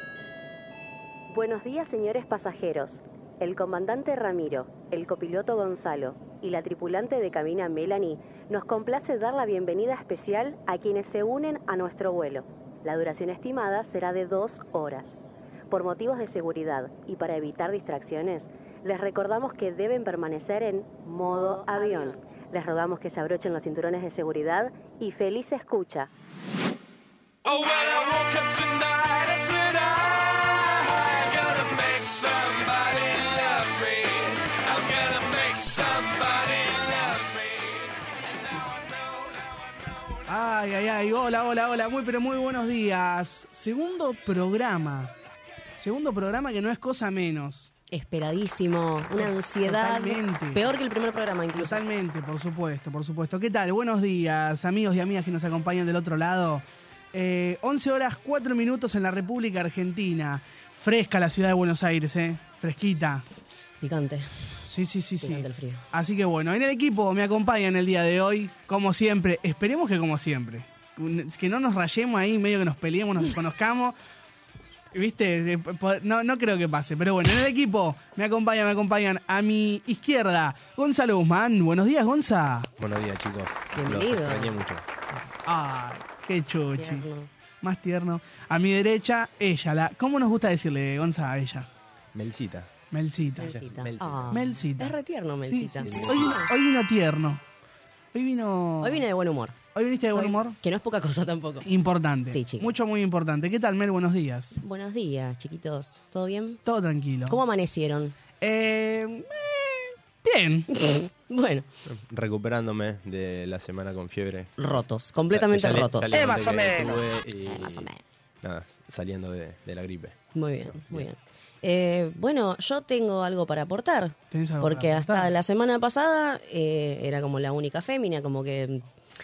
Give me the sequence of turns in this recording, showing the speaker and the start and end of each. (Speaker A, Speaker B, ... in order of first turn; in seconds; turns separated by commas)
Speaker A: 1.3-15.2, Speaker A: 15.7-26.1, Speaker B: 27.4-39.9, Speaker C: 40.3-45.1, Speaker C: 45.8-47.7, Speaker A: 47.9-51.8, Speaker C: 49.2-50.6, Speaker C: 51.5-63.2, Speaker A: 63.8-64.3, Speaker C: 64.7-73.9, Speaker A: 65.2-65.8, Speaker C: 74.9-82.7, Speaker D: 82.8-84.8, Speaker A: 83.7-84.5, Speaker C: 85.5-87.0, Speaker A: 86.8-87.3, Speaker C: 87.6-91.7, Speaker D: 92.1-92.7, Speaker C: 92.9-93.6, Speaker D: 93.4-94.5, Speaker A: 93.4-96.5, Speaker C: 94.3-97.4, Speaker D: 95.8-96.5, Speaker C: 98.1-99.0, Speaker A: 98.8-99.6, Speaker C: 99.7-100.5, Speaker A: 100.1-101.7, Speaker C: 101.6-104.6, Speaker A: 102.3-102.7, Speaker A: 104.6-106.6, Speaker C: 106.6-107.4, Speaker A: 107.3-108.1, Speaker C: 108.4-110.7, Speaker A: 110.7-111.7, Speaker D: 111.8-114.8, Speaker A: 114.6-116.6, Speaker D: 115.3-117.9, Speaker A: 117.5-118.0, Speaker D: 118.4-120.2, Speaker A: 120.3-128.8, Speaker D: 120.7-121.1, Speaker C: 124.3-125.3